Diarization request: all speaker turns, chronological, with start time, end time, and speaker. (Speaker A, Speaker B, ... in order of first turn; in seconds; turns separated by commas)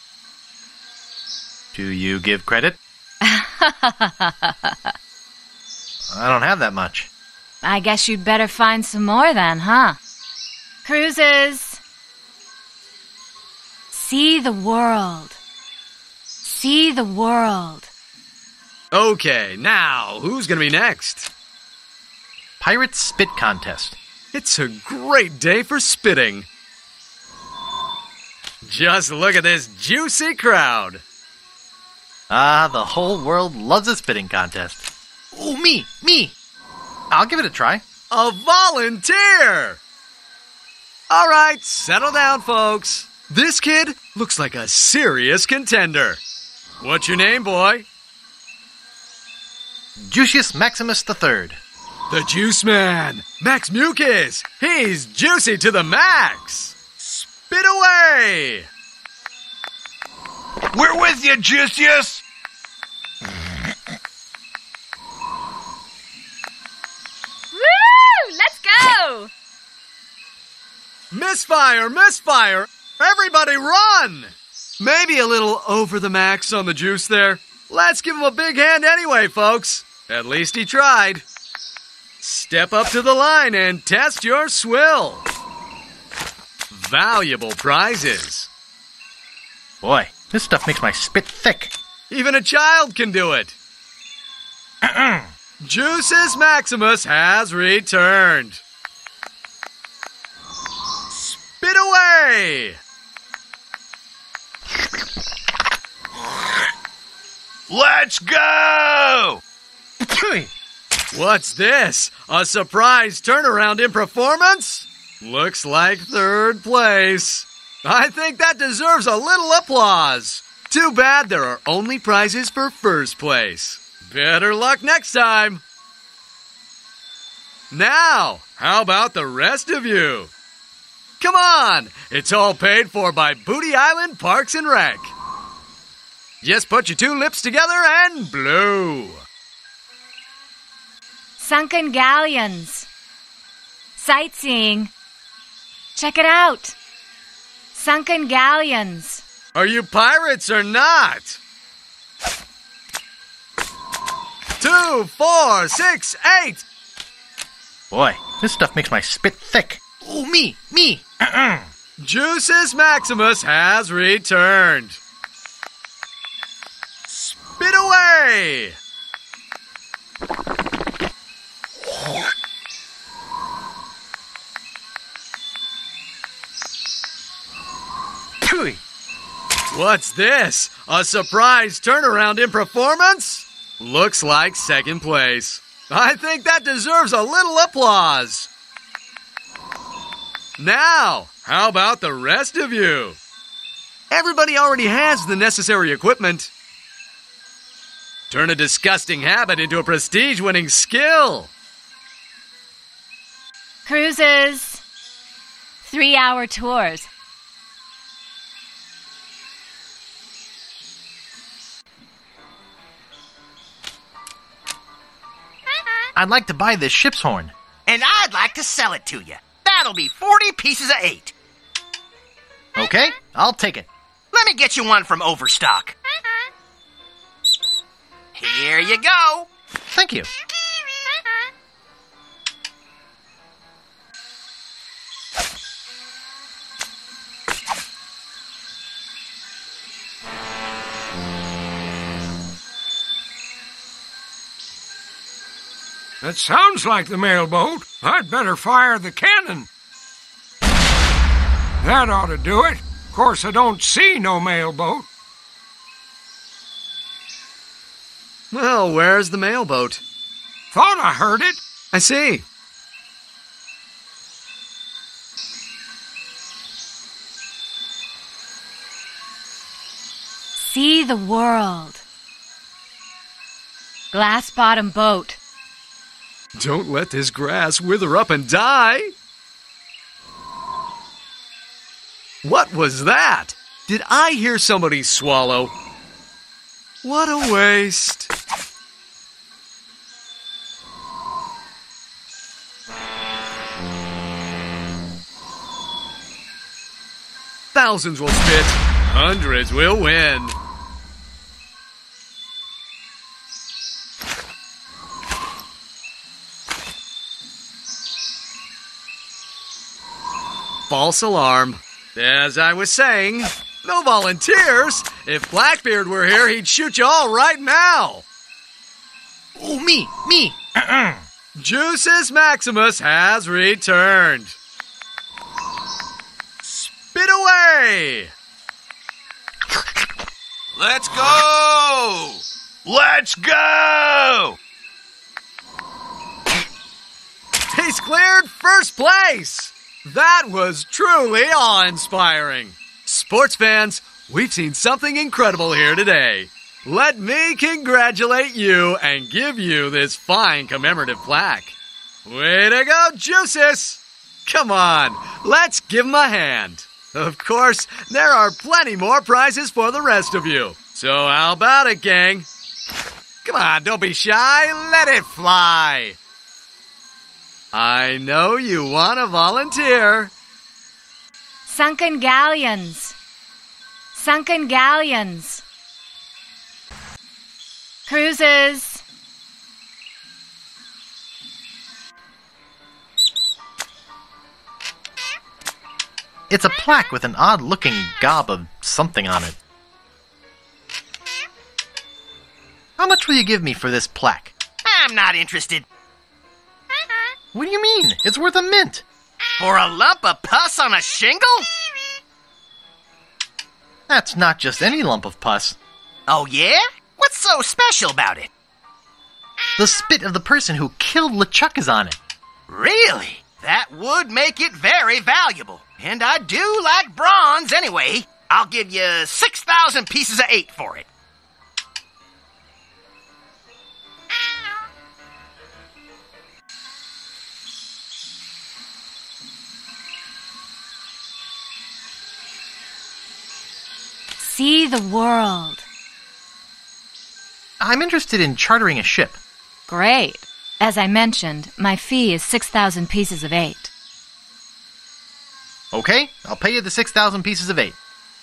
Speaker A: 1.7-2.8, Speaker B: 3.2-4.9, Speaker A: 6.1-7.1, Speaker B: 7.6-10.0, Speaker B: 10.8-11.8, Speaker B: 13.9-15.4, Speaker B: 16.4-17.9, Speaker C: 18.9-21.3, Speaker A: 22.6-24.0, Speaker C: 24.3-26.5, Speaker C: 28.6-31.0, Speaker A: 32.3-36.3, Speaker A: 37.1-37.8, Speaker C: 38.1-39.8, Speaker C: 41.1-46.2, Speaker C: 46.8-47.9, Speaker A: 50.0-51.6, Speaker C: 52.1-58.7, Speaker D: 60.8-62.2, Speaker E: 60.9-62.0, Speaker B: 67.5-69.3, Speaker C: 71.1-81.2, Speaker C: 82.2-85.2, Speaker C: 86.7-88.5, Speaker A: 89.8-91.7, Speaker C: 92.1-93.6, Speaker A: 94.8-95.3, Speaker C: 95.6-98.6, Speaker C: 101.4-102.8, Speaker E: 107.7-109.4, Speaker C: 111.1-125.6, Speaker C: 127.7-130.3, Speaker C: 131.2-135.1, Speaker C: 136.4-139.2, Speaker B: 141.4-142.9, Speaker B: 144.0-144.9, Speaker B: 145.9-146.8, Speaker B: 147.7-149.2, Speaker C: 149.5-151.4, Speaker C: 154.6-156.6, Speaker A: 157.9-161.7, Speaker C: 162.0-165.0, Speaker C: 167.1-168.8, Speaker A: 178.5-178.8, Speaker C: 179.7-188.5, Speaker C: 190.6-193.2, Speaker C: 194.1-196.5, Speaker C: 198.3-201.5, Speaker B: 203.8-204.8, Speaker B: 205.8-207.1, Speaker A: 216.2-217.5, Speaker F: 217.9-221.3, Speaker A: 222.8-223.9, Speaker F: 224.3-225.9, Speaker F: 228.3-229.5, Speaker A: 229.9-230.3, Speaker D: 246.2-249.7, Speaker D: 251.8-255.1, Speaker C: 258.5-260.0, Speaker D: 260.7-261.6, Speaker C: 261.9-262.4, Speaker B: 270.6-272.0, Speaker B: 274.1-275.4, Speaker C: 276.6-279.1, Speaker C: 282.4-285.7, Speaker C: 287.0-288.3, Speaker C: 297.7-300.6, Speaker C: 310.9-318.2, Speaker A: 319.6-321.2, Speaker C: 321.6-324.6, Speaker C: 326.6-328.3, Speaker E: 330.8-334.6, Speaker C: 337.7-351.8, Speaker C: 352.3-362.5, Speaker C: 363.4-366.2, Speaker C: 367.7-370.3, Speaker B: 371.7-373.2, Speaker B: 374.1-375.6, Speaker B: 378.1-379.0, Speaker A: 386.5-389.6, Speaker A: 393.0-394.5, Speaker F: 394.9-395.9, Speaker A: 397.5-399.1, Speaker F: 399.6-401.7, Speaker A: 404.1-405.8, Speaker F: 406.3-408.5, Speaker A: 409.8-412.2, Speaker F: 412.7-421.1, Speaker B: 434.4-435.9, Speaker A: 437.8-439.4, Speaker B: 439.9-443.9, Speaker A: 445.9-448.0